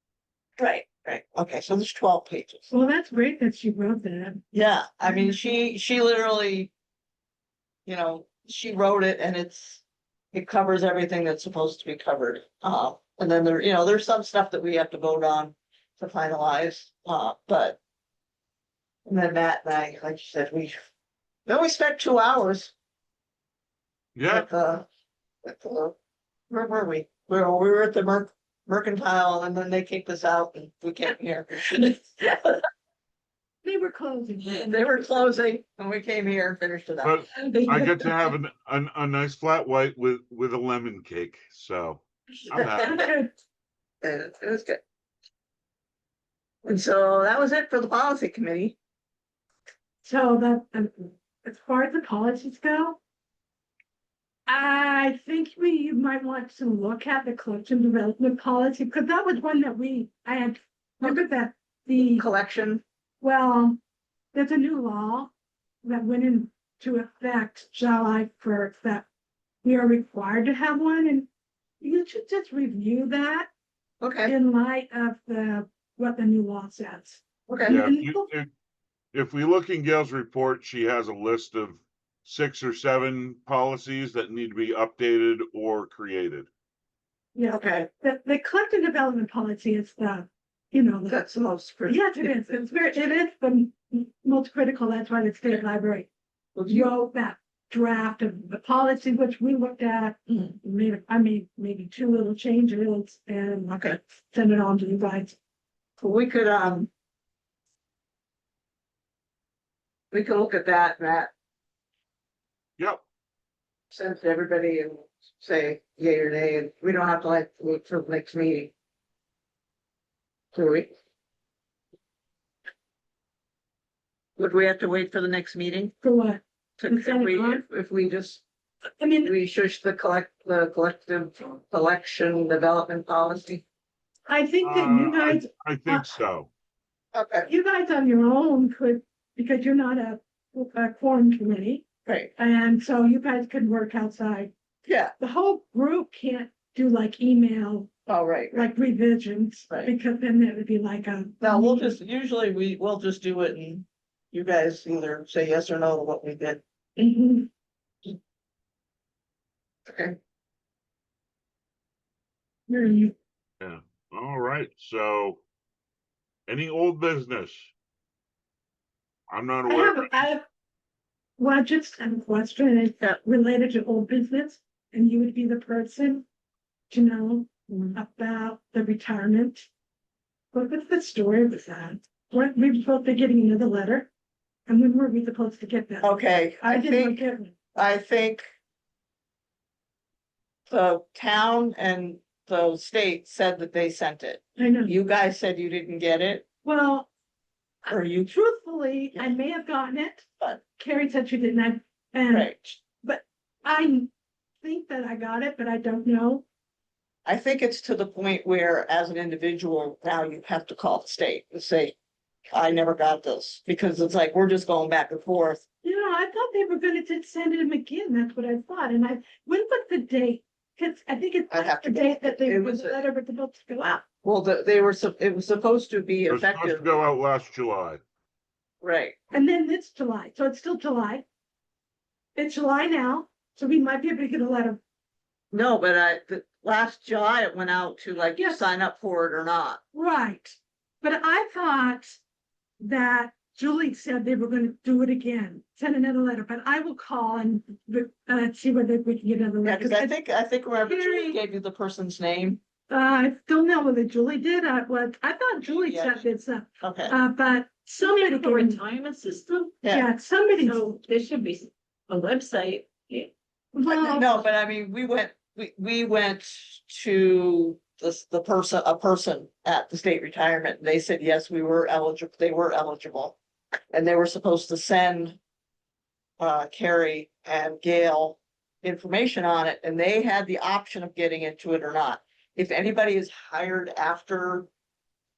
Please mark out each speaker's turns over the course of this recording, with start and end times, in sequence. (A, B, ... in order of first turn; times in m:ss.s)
0:00.6-0:02.7 A
0:02.7-0:04.4 B
0:04.5-0:06.7 A
0:05.0-0:05.4 B
0:07.8-0:17.8 A
0:19.0-0:20.7 A
0:21.4-0:22.7 A
0:24.2-0:24.5 C
0:24.2-0:24.8 A
0:25.4-0:25.9 A
0:26.5-0:32.6 A
0:33.6-0:34.7 B
0:34.5-0:37.2 A
0:37.0-0:43.0 C
0:37.3-0:38.3 B
0:42.6-0:43.1 A
0:42.6-0:43.3 B
0:44.0-0:44.8 A
0:46.6-0:48.8 A
0:50.0-0:53.0 B
0:54.5-1:02.3 B
1:02.1-1:02.8 A
1:03.2-1:03.8 B
1:04.3-1:05.3 B
1:05.8-1:09.0 B
1:09.6-1:11.3 B
1:11.8-1:13.5 B
1:14.0-1:14.3 A
1:14.2-1:18.3 B
1:17.5-1:17.8 A
1:17.7-1:18.5 C
1:19.1-1:26.5 C
1:27.3-1:31.2 B
1:27.5-1:27.9 A
1:31.1-1:32.4 A
1:31.8-1:36.1 B
1:36.5-1:36.9 A
1:36.7-1:45.4 B
1:40.3-1:40.5 A
1:43.7-1:44.0 A
1:46.0-1:46.9 A
1:50.1-1:51.3 A
1:53.9-1:58.7 A
2:00.5-2:00.9 A
2:04.4-2:05.9 A
2:06.0-2:07.6 B
2:06.8-2:08.4 A
2:09.0-2:09.3 B
2:09.2-2:13.6 A
2:14.3-2:16.1 B
2:14.6-2:16.5 C
2:17.1-2:17.5 A
2:17.4-2:21.8 B
2:22.0-2:22.3 A
2:22.4-2:24.5 B
2:24.8-2:25.1 A
2:25.2-2:27.9 B
2:28.1-2:28.7 A
2:28.5-2:32.0 B
2:31.4-2:36.6 A
2:37.0-2:37.5 B
2:39.9-2:40.2 A
2:42.7-2:43.1 B
2:43.6-2:45.4 C
2:46.5-2:47.7 C
2:49.3-2:50.3 C
2:49.7-2:50.4 B
2:51.4-2:56.2 B
2:56.9-2:59.7 B
2:57.7-2:58.0 A
3:00.5-3:04.1 B
3:04.7-3:07.5 B
3:06.0-3:08.4 A
3:10.7-3:16.4 A
3:14.6-3:14.9 B
3:16.6-3:17.1 B
3:17.8-3:24.1 B
3:17.9-3:18.3 A
3:22.3-3:22.8 A
3:24.6-3:26.4 B
3:27.2-3:32.0 A
3:32.5-3:35.6 A
3:35.8-3:44.0 B
3:41.5-3:43.0 A
3:44.2-3:47.0 A
3:46.3-3:48.0 C
3:48.8-3:49.2 A
3:49.3-3:51.2 B
3:52.4-3:54.8 B
3:55.5-3:59.8 A
3:58.3-3:58.7 B
3:59.9-4:02.2 B
4:02.8-4:10.1 B
4:09.6-4:12.6 A
4:10.8-4:11.4 B
4:12.9-4:18.8 B
4:15.7-4:16.2 A
4:16.8-4:17.2 A
4:18.0-4:19.8 D
4:19.8-4:20.1 A
4:19.8-4:20.9 B
4:20.6-4:23.3 D
4:23.7-4:24.3 B
4:23.8-4:33.4 A
4:33.9-4:35.4 A
4:36.4-4:44.7 A